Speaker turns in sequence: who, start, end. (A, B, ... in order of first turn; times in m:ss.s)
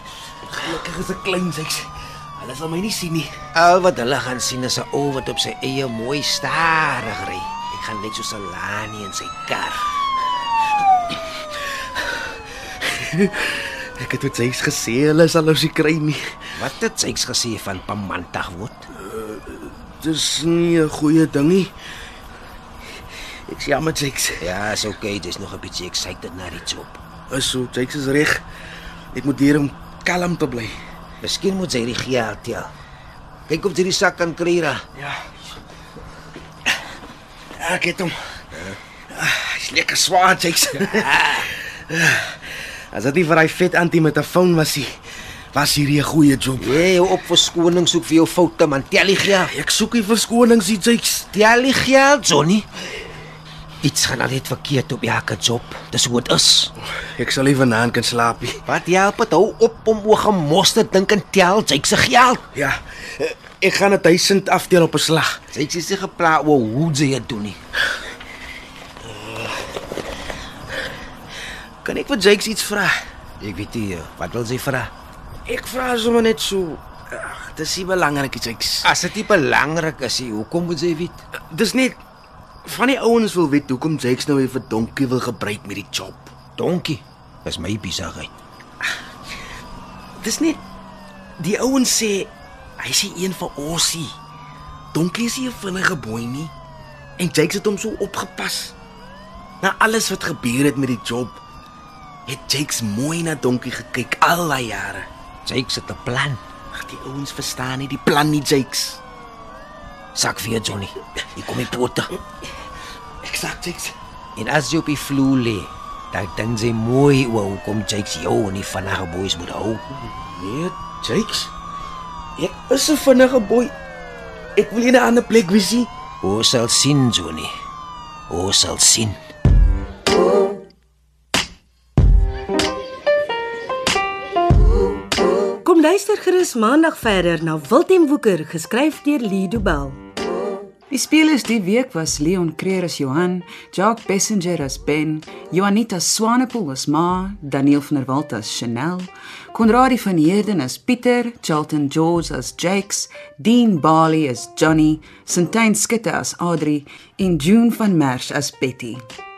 0:00.5-0:03.3 A
0:03.5-0:09.8 B
0:12.8-0:16.5 A
0:16.6-0:18.8 B
0:19.0-0:21.7 A
0:23.5-0:24.4 A
0:24.4-0:27.0 B
0:27.3-0:28.4 A
0:29.1-0:30.8 A
0:31.2-0:32.7 B
0:33.5-0:34.8 B
0:35.0-0:35.3 A
0:37.6-0:38.2 A
0:38.5-0:38.8 B
0:39.1-0:45.0 A
0:40.8-0:41.5 B
0:45.5-0:46.8 A
0:46.6-0:49.5 B
0:49.3-0:51.3 A
0:51.3-0:52.6 B
0:53.8-0:56.7 B
0:57.0-0:58.6 A
0:58.6-1:02.4 B
1:02.5-1:05.4 A
1:05.5-1:07.6 B
1:09.0-1:09.7 A
1:11.8-1:13.0 A
1:13.4-1:14.9 B
1:15.5-1:18.9 A
1:18.8-1:21.2 B
1:21.5-1:22.0 A
1:22.6-1:26.3 A
1:26.6-1:28.3 B
1:30.2-1:30.6 A
1:31.4-1:34.2 A
1:34.9-1:36.5 A
1:37.2-1:38.8 A
1:39.6-1:41.4 A
1:42.3-1:45.1 A
1:45.4-1:46.4 B
1:46.7-1:49.0 A
1:50.1-1:52.1 B
1:53.2-1:54.0 A
1:54.4-1:59.8 B
2:00.0-2:01.5 A
2:02.4-2:03.7 A
2:04.6-2:05.9 A
2:06.2-2:07.5 B
2:08.3-2:09.2 B
2:15.6-2:20.0 C
2:20.9-2:39.0 D